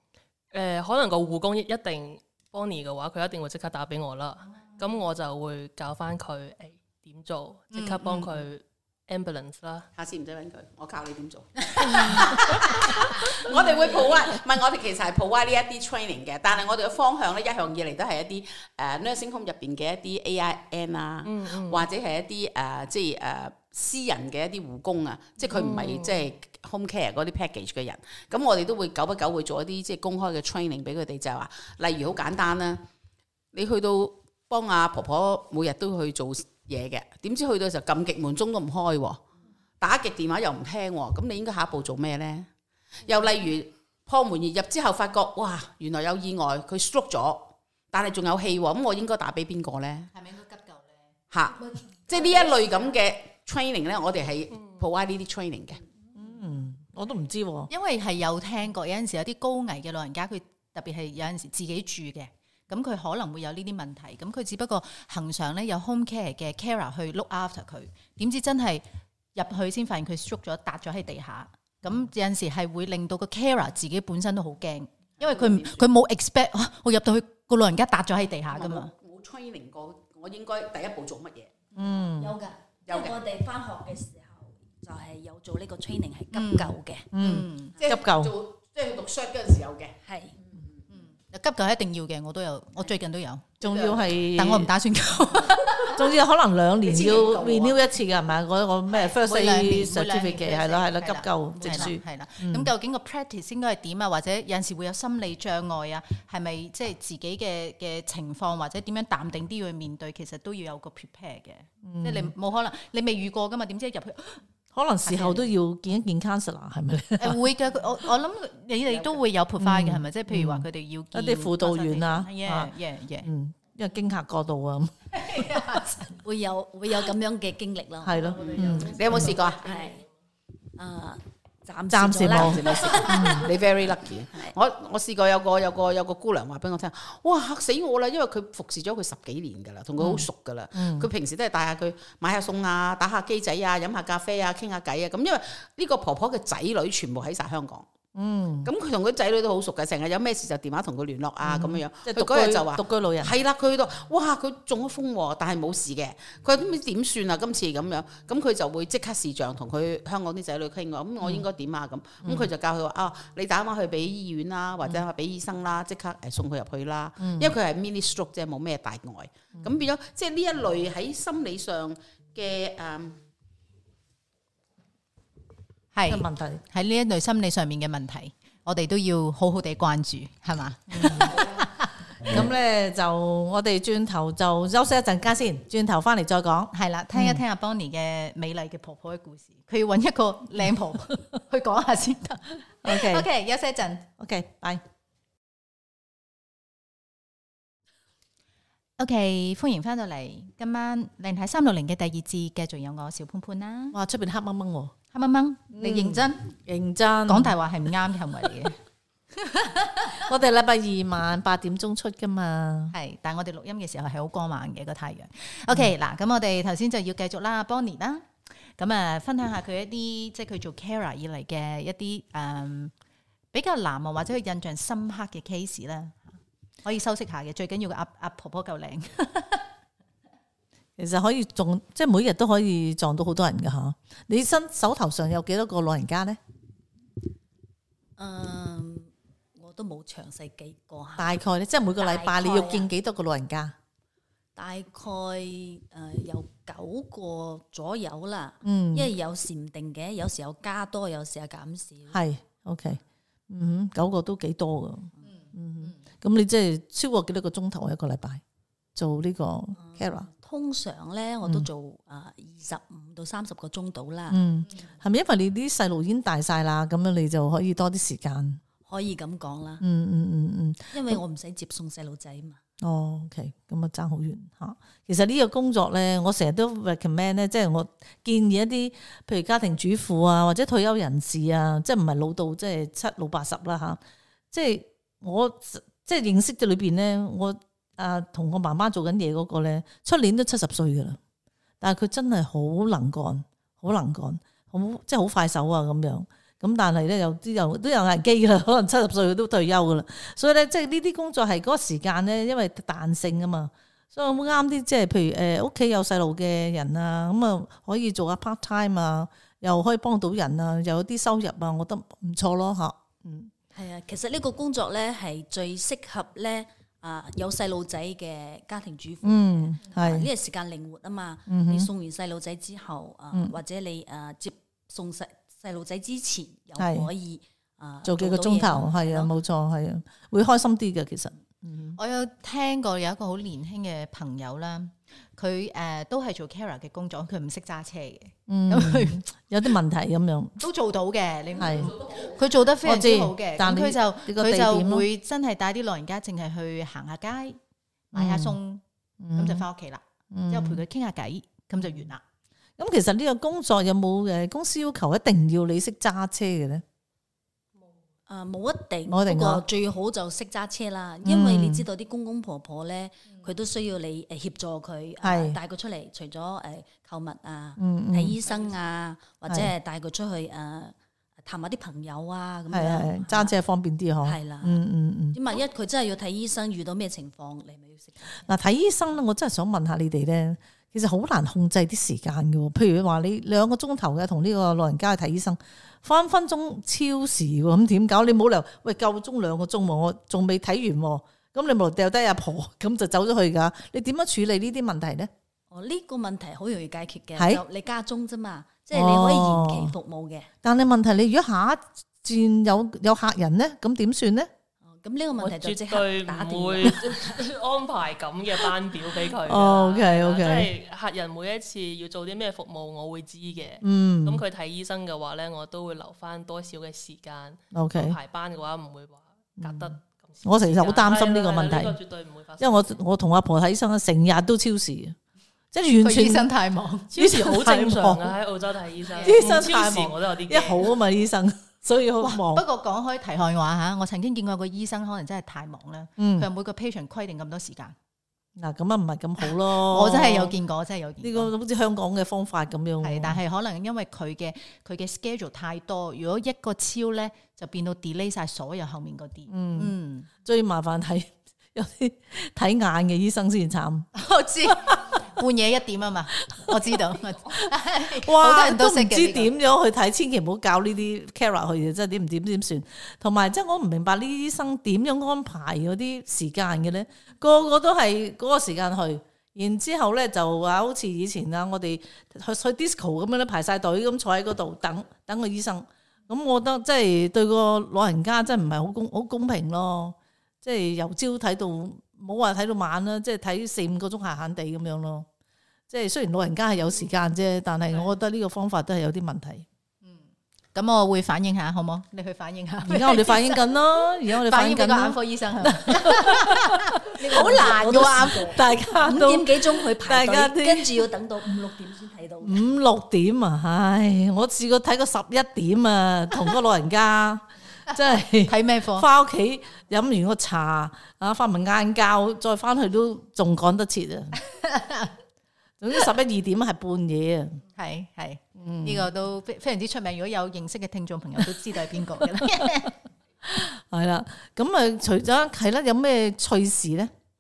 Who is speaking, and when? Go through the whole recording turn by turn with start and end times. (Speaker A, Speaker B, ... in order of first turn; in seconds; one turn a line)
Speaker A: 0.5-9.9
Speaker B: 7.7-8.3
Speaker C: 10.0-32.9
Speaker A: 12.0-12.4
Speaker A: 13.4-13.9
Speaker A: 21.2-21.9
Speaker A: 25.4-26.3
Speaker C: 33.5-39.2
Speaker C: 39.8-42.5
Speaker C: 43.0-50.1
Speaker B: 50.1-51.0
Speaker C: 51.3-55.8
Speaker B: 52.1-52.8
Speaker D: 56.2-57.7
Speaker B: 57.7-68.8
Speaker B: 69.3-78.9
Speaker C: 75.2-75.9
Speaker C: 78.5-81.5
Speaker D: 81.8-82.3
Speaker E: 82.2-87.4
Speaker C: 82.9-83.2
Speaker B: 86.3-87.8
Speaker D: 87.1-88.3
Speaker C: 87.8-90.8
Speaker E: 90.0-90.3
Speaker B: 90.9-93.5
Speaker D: 93.6-94.7
Speaker C: 93.7-94.0
Speaker B: 94.3-96.1
Speaker D: 95.9-102.7
Speaker C: 96.8-97.8
Speaker B: 98.9-114.4
Speaker D: 111.8-112.3
Speaker D: 114.7-117.4
Speaker B: 115.1-115.5
Speaker B: 117.2-123.3
Speaker D: 119.6-125.7
Speaker B: 125.1-126.2
Speaker E: 126.2-128.8
Speaker D: 128.0-129.4
Speaker A: 128.1-130.1
Speaker C: 128.6-129.7
Speaker E: 129.6-130.0
Speaker E: 130.8-133.4
Speaker D: 131.9-133.5
Speaker C: 132.3-147.9
Speaker D: 140.0-141.1
Speaker D: 148.2-148.7
Speaker C: 148.6-173.2
Speaker D: 151.4-153.3
Speaker D: 162.2-162.5
Speaker D: 167.2-167.6
Speaker B: 175.9-182.3
Speaker D: 176.1-176.6
Speaker D: 180.9-181.4
Speaker D: 182.2-187.4
Speaker B: 186.7-194.1
Speaker D: 192.8-193.3
Speaker D: 194.2-194.8
Speaker B: 199.0-204.0
Speaker D: 203.9-205.0
Speaker B: 205.1-206.5
Speaker D: 205.8-207.6
Speaker B: 207.3-208.8
Speaker B: 209.4-210.2
Speaker D: 210.2-212.9
Speaker B: 212.9-222.9
Speaker B: 223.5-226.3
Speaker B: 226.8-229.7
Speaker D: 231.0-236.4
Speaker E: 238.2-241.3
Speaker D: 241.2-243.8
Speaker E: 242.0-242.9
Speaker E: 244.6-252.2
Speaker D: 248.7-249.1
Speaker D: 252.1-258.4
Speaker D: 258.9-260.3
Speaker E: 259.8-264.4
Speaker D: 264.3-268.6
Speaker E: 268.9-269.8
Speaker D: 269.8-271.2
Speaker E: 270.9-272.6
Speaker D: 272.8-284.0
Speaker D: 284.5-291.2
Speaker D: 291.8-313.5
Speaker E: 313.7-329.3
Speaker D: 319.2-320.3
Speaker D: 321.5-321.9
Speaker D: 326.8-327.1
Speaker D: 328.1-332.0
Speaker B: 332.0-339.2
Speaker D: 338.5-340.6
Speaker B: 340.6-347.6
Speaker D: 341.6-342.0
Speaker D: 342.8-345.1
Speaker B: 348.1-348.8
Speaker D: 348.1-348.6
Speaker D: 349.2-349.7
Speaker B: 349.4-352.2
Speaker D: 350.3-350.8
Speaker D: 352.8-356.8
Speaker E: 358.3-373.5
Speaker D: 359.1-359.6
Speaker D: 361.2-361.9
Speaker D: 365.2-365.6
Speaker D: 367.8-368.4
Speaker D: 372.7-375.4
Speaker E: 374.2-374.8
Speaker E: 375.3-378.5
Speaker D: 378.4-395.3
Speaker E: 395.7-400.5
Speaker D: 397.4-397.6
Speaker D: 398.9-400.0
Speaker D: 400.6-404.5
Speaker E: 404.9-407.4
Speaker A: 405.4-423.0
Speaker D: 409.4-410.7
Speaker D: 413.8-414.4
Speaker D: 417.7-418.2
Speaker D: 419.6-422.0
Speaker D: 422.6-425.2
Speaker D: 425.7-426.5
Speaker B: 426.0-427.1
Speaker D: 427.1-428.4
Speaker A: 427.1-430.9
Speaker B: 429.1-429.6
Speaker D: 429.2-432.6
Speaker B: 432.2-437.9
Speaker D: 436.2-436.5
Speaker D: 438.6-440.6
Speaker B: 439.5-441.5
Speaker D: 441.2-443.4
Speaker B: 443.0-450.3
Speaker D: 449.5-454.1
Speaker B: 454.1-459.5
Speaker D: 454.7-455.0
Speaker D: 456.5-457.0
Speaker D: 458.2-485.3
Speaker D: 485.9-489.7
Speaker B: 490.0-493.8
Speaker D: 492.9-501.1
Speaker B: 494.3-498.6
Speaker E: 497.2-502.7
Speaker D: 502.4-514.4
Speaker B: 507.9-509.1
Speaker B: 514.4-515.1
Speaker D: 515.8-517.6
Speaker B: 517.7-522.9
Speaker D: 518.6-519.1
Speaker D: 523.5-527.1